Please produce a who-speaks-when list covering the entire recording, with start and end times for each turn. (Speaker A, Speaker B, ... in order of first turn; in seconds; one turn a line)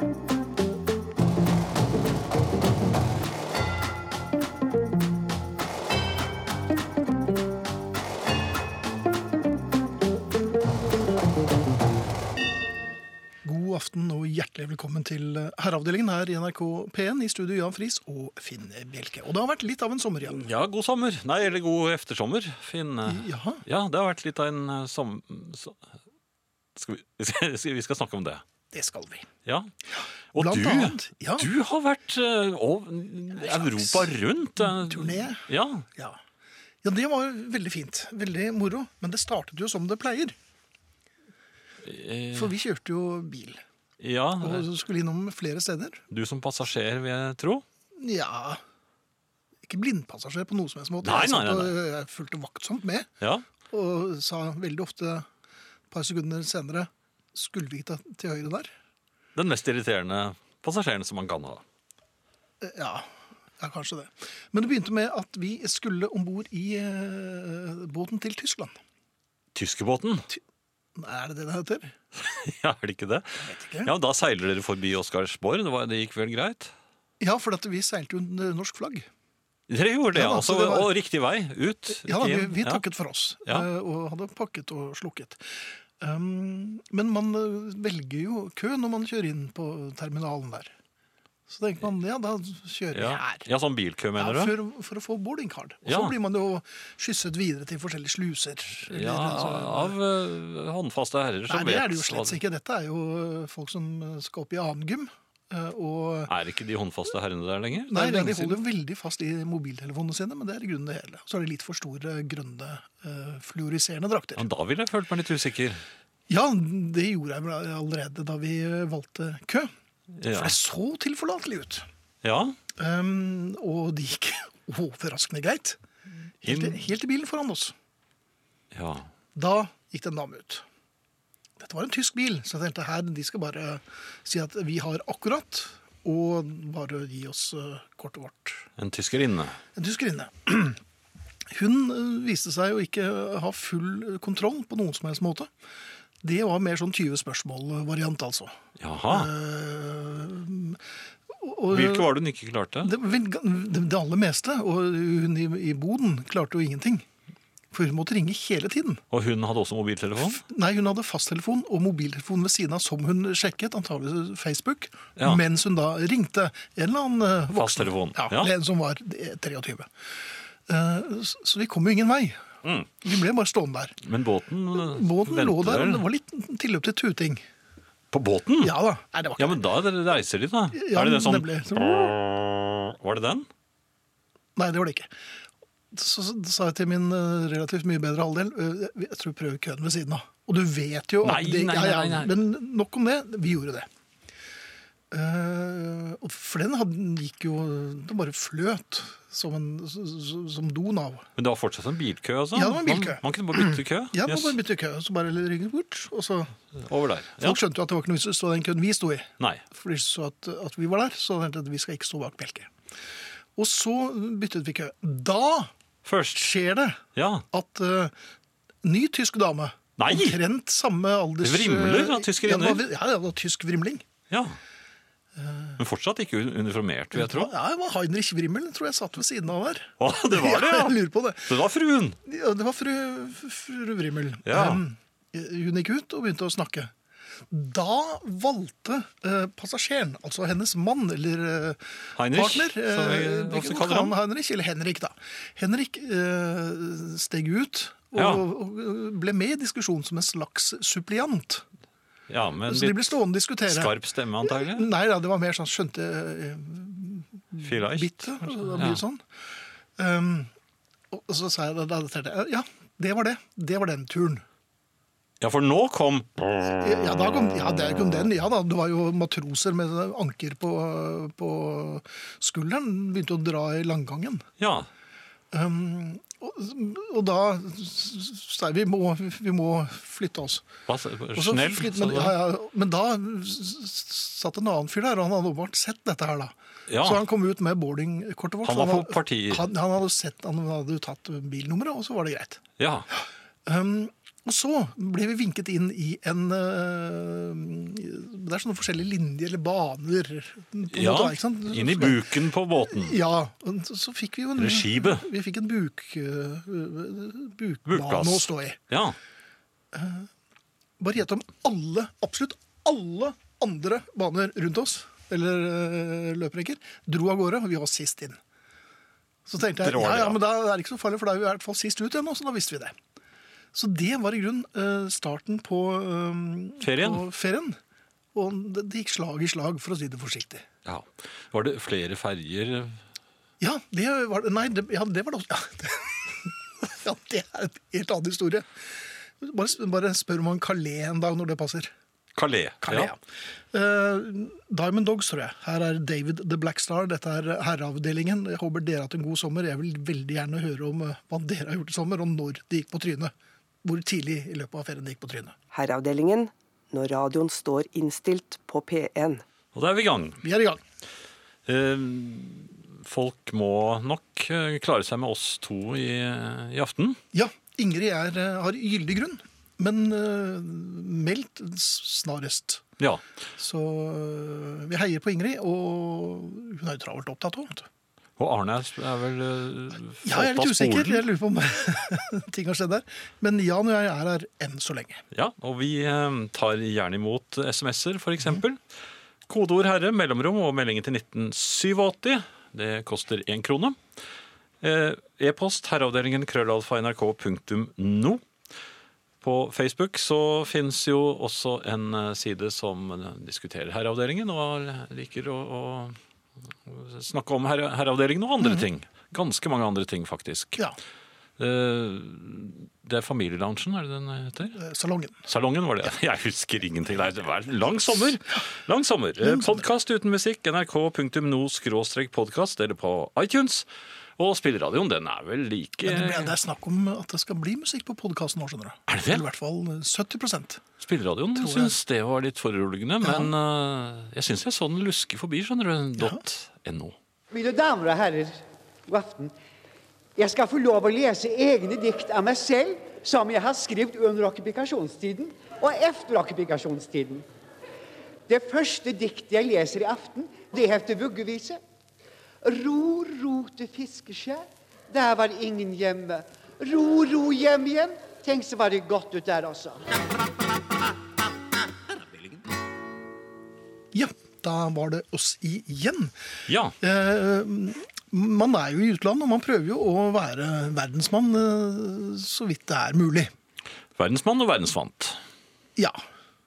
Speaker A: 13.4-20.4
Speaker B: 20.2-25.8
Speaker A: 23.1-23.6
Speaker B: 26.7-28.4
Speaker A: 28.7-29.3
Speaker B: 29.4-29.7
Speaker A: 29.9-31.5
Speaker B: 30.3-35.9
Speaker A: 33.4-36.2
Speaker A: 36.8-40.3
Speaker B: 41.8-42.5
Speaker A: 42.3-43.6
Speaker B: 44.0-44.7
Speaker A: 44.4-46.0
Speaker B: 46.1-47.6
Speaker A: 48.0-48.6
Speaker A: 49.7-53.1
Speaker B: 51.0-51.8
Speaker A: 53.7-55.2
Speaker A: 55.9-58.7
Speaker B: 59.3-61.6
Speaker A: 62.6-68.7
Speaker B: 69.5-70.2
Speaker A: 71.0-71.9
Speaker B: 72.1-76.7
Speaker A: 73.4-73.9
Speaker A: 77.2-79.1
Speaker B: 79.7-82.8
Speaker A: 80.1-80.9
Speaker A: 81.9-85.4
Speaker A: 86.0-90.7
Speaker A: 91.5-93.5
Speaker B: 92.9-94.5
Speaker A: 94.2-100.0
Speaker B: 95.8-96.1
Speaker B: 98.8-102.4
Speaker A: 101.5-106.3
Speaker B: 106.3-108.6
Speaker A: 107.9-114.4
Speaker B: 114.3-115.8
Speaker A: 116.3-119.7
Speaker B: 120.2-120.5
Speaker A: 120.2-121.8
Speaker B: 122.2-122.6
Speaker A: 122.8-125.8
Speaker A: 126.4-127.7
Speaker B: 126.4-126.8
Speaker B: 128.7-129.1
Speaker A: 129.3-130.6
Speaker A: 131.6-138.7
Speaker B: 138.8-139.6
Speaker A: 139.8-140.8
Speaker A: 141.5-145.5
Speaker A: 146.2-148.5
Speaker B: 148.8-149.3
Speaker A: 149.1-150.8
Speaker A: 151.3-152.2
Speaker B: 151.7-152.9
Speaker A: 152.8-157.1
Speaker A: 157.7-159.0
Speaker B: 159.1-160.4
Speaker A: 160.2-169.9
Speaker B: 165.2-165.4
Speaker B: 167.5-168.5
Speaker A: 170.7-172.4
Speaker B: 172.6-172.9
Speaker A: 173.0-173.9
Speaker B: 174.0-176.0
Speaker A: 174.7-177.4
Speaker B: 178.1-178.7
Speaker A: 178.6-179.6
Speaker B: 179.4-183.5
Speaker A: 180.7-182.2
Speaker A: 184.6-185.1
Speaker A: 185.9-193.9
Speaker B: 191.2-192.3
Speaker A: 195.1-201.2
Speaker B: 201.4-204.6
Speaker A: 202.5-206.5
Speaker B: 206.8-207.6
Speaker A: 207.4-212.7
Speaker A: 213.6-215.7
Speaker B: 216.0-216.4
Speaker A: 216.3-218.1
Speaker B: 217.1-217.4
Speaker A: 218.8-224.0
Speaker B: 220.0-220.4
Speaker B: 221.4-222.8
Speaker B: 224.3-224.6
Speaker A: 225.4-225.8
Speaker B: 225.8-227.5
Speaker A: 227.1-231.5
Speaker B: 230.0-232.2
Speaker A: 232.2-236.9
Speaker B: 234.4-234.8
Speaker A: 237.5-251.6
Speaker B: 242.2-244.1
Speaker B: 248.1-248.4
Speaker B: 252.3-254.9
Speaker A: 252.7-259.2
Speaker B: 257.6-259.0
Speaker A: 260.0-260.5
Speaker A: 261.1-264.4
Speaker B: 265.4-266.7
Speaker A: 266.8-274.4
Speaker B: 274.6-274.9
Speaker A: 275.5-280.7
Speaker B: 280.9-282.4
Speaker A: 281.3-292.6
Speaker B: 286.9-287.2
Speaker B: 288.6-289.6
Speaker B: 292.8-293.1
Speaker A: 293.6-302.2
Speaker B: 300.9-303.2
Speaker A: 302.9-308.8
Speaker B: 304.6-305.3
Speaker B: 307.9-309.2
Speaker A: 309.9-310.3
Speaker A: 311.0-318.4
Speaker A: 319.4-322.9
Speaker B: 319.8-320.4
Speaker A: 323.7-327.8
Speaker B: 326.8-327.2
Speaker A: 328.3-330.6
Speaker B: 330.8-333.0
Speaker A: 333.6-338.7
Speaker A: 339.4-341.9
Speaker B: 342.3-343.1
Speaker A: 342.8-343.2
Speaker A: 343.7-353.3
Speaker A: 353.8-355.5
Speaker C: 355.7-359.4
Speaker B: 359.7-360.4
Speaker A: 360.4-360.8
Speaker B: 361.6-367.2
Speaker A: 367.3-372.8
Speaker A: 373.6-377.9
Speaker B: 378.4-381.3
Speaker A: 380.2-385.2
Speaker B: 385.3-388.8
Speaker B: 389.5-394.0
Speaker B: 394.8-398.4
Speaker B: 399.4-406.2
Speaker B: 406.9-410.8
Speaker B: 411.6-414.8
Speaker A: 414.7-415.4
Speaker B: 415.4-426.6
Speaker A: 419.4-419.8
Speaker A: 426.0-430.8
Speaker B: 429.1-429.4
Speaker B: 431.0-437.1
Speaker A: 431.6-431.9
Speaker A: 433.2-433.5
Speaker D: 437.5-439.5
Speaker D: 440.4-447.4
Speaker D: 448.5-451.8
Speaker D: 452.6-460.0
Speaker A: 464.1-466.3
Speaker B: 466.7-466.9
Speaker A: 467.0-473.5
Speaker B: 474.1-475.4